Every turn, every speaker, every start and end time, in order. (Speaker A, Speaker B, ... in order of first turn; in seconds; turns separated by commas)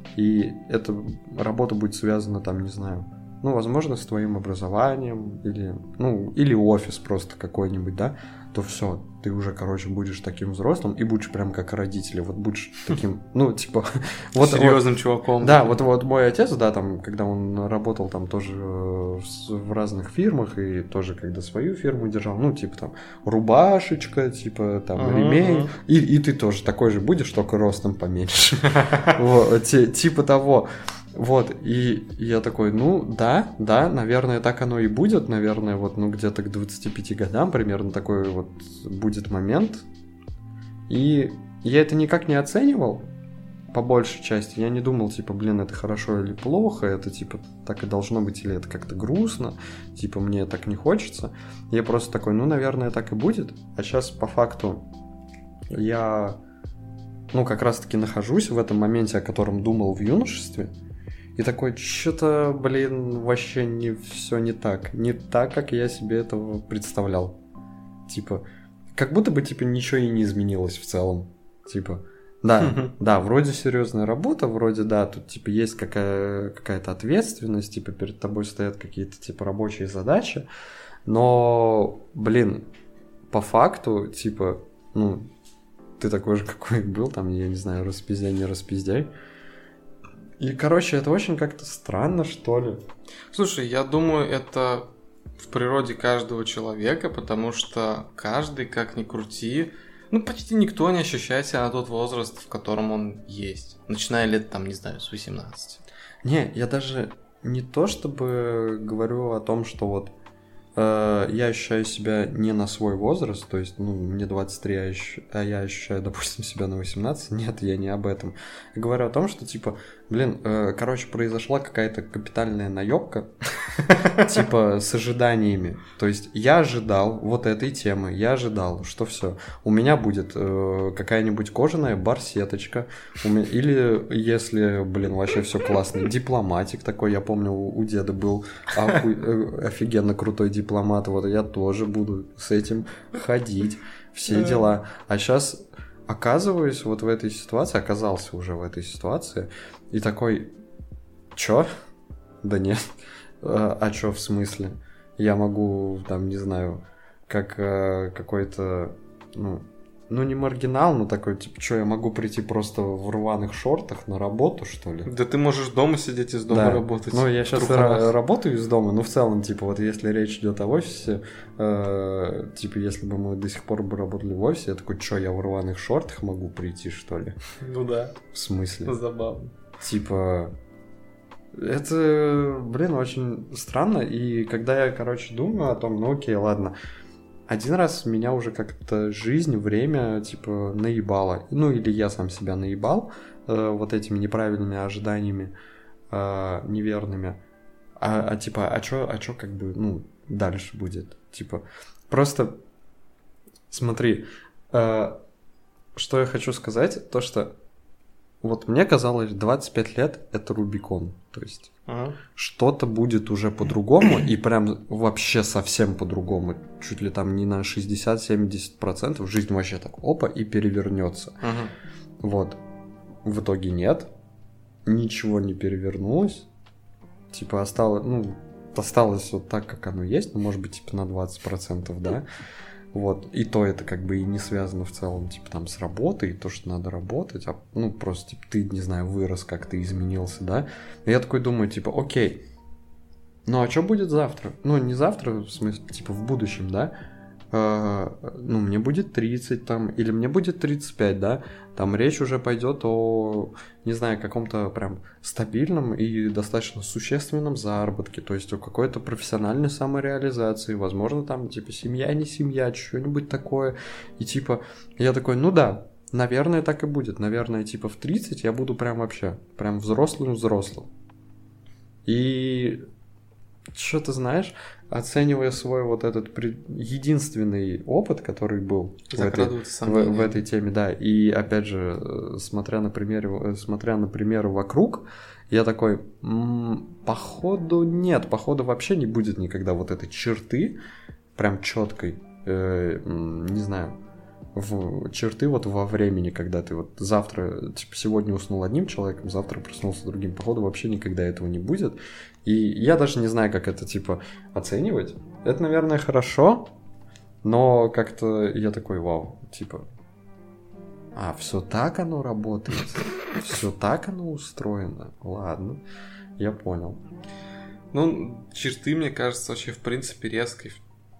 Speaker A: 0.1-14.8, Speaker B: 14.4-15.8, Speaker A: 15.4-39.9, Speaker B: 25.0-25.7, Speaker B: 28.7-29.2, Speaker A: 40.9-43.1, Speaker A: 43.7-54.9, Speaker A: 55.7-56.4, Speaker A: 57.3-60.7, Speaker A: 61.4-67.4, Speaker A: 68.1-68.4, Speaker A: 68.9-80.5, Speaker B: 72.6-72.9, Speaker A: 81.1-82.7, Speaker A: 83.3-85.3, Speaker A: 86.0-89.1, Speaker A: 90.4-92.8, Speaker B: 93.3-105.8, Speaker A: 106.2-110.1, Speaker A: 110.8-150.5, Speaker B: 144.3-144.6, Speaker A: 151.3-151.7, Speaker A: 152.4-165.1, Speaker B: 165.1-168.1, Speaker A: 166.5-177.4, Speaker B: 177.6-178.2, Speaker A: 178.3-179.0, Speaker B: 178.8-179.5, Speaker A: 179.8-180.6, Speaker A: 181.5-186.7, Speaker A: 187.5-195.5, Speaker A: 196.1-197.4, Speaker A: 198.0-202.6, Speaker A: 203.7-205.2, Speaker A: 205.9-207.5, Speaker A: 208.4-211.7, Speaker B: 211.9-212.2, Speaker A: 212.3-221.4, Speaker B: 221.4-221.7, Speaker A: 222.2-222.6, Speaker A: 223.2-224.1, Speaker A: 224.9-226.5, Speaker A: 227.3-232.3, Speaker A: 232.9-242.4, Speaker A: 243.5-246.9, Speaker A: 247.5-270.9, Speaker A: 272.1-272.8, Speaker A: 273.7-290.8, Speaker B: 279.1-280.4, Speaker A: 291.4-294.0, Speaker A: 294.6-306.7, Speaker A: 307.4-309.9, Speaker A: 311.1-315.8, Speaker A: 316.4-317.0, Speaker B: 317.9-320.8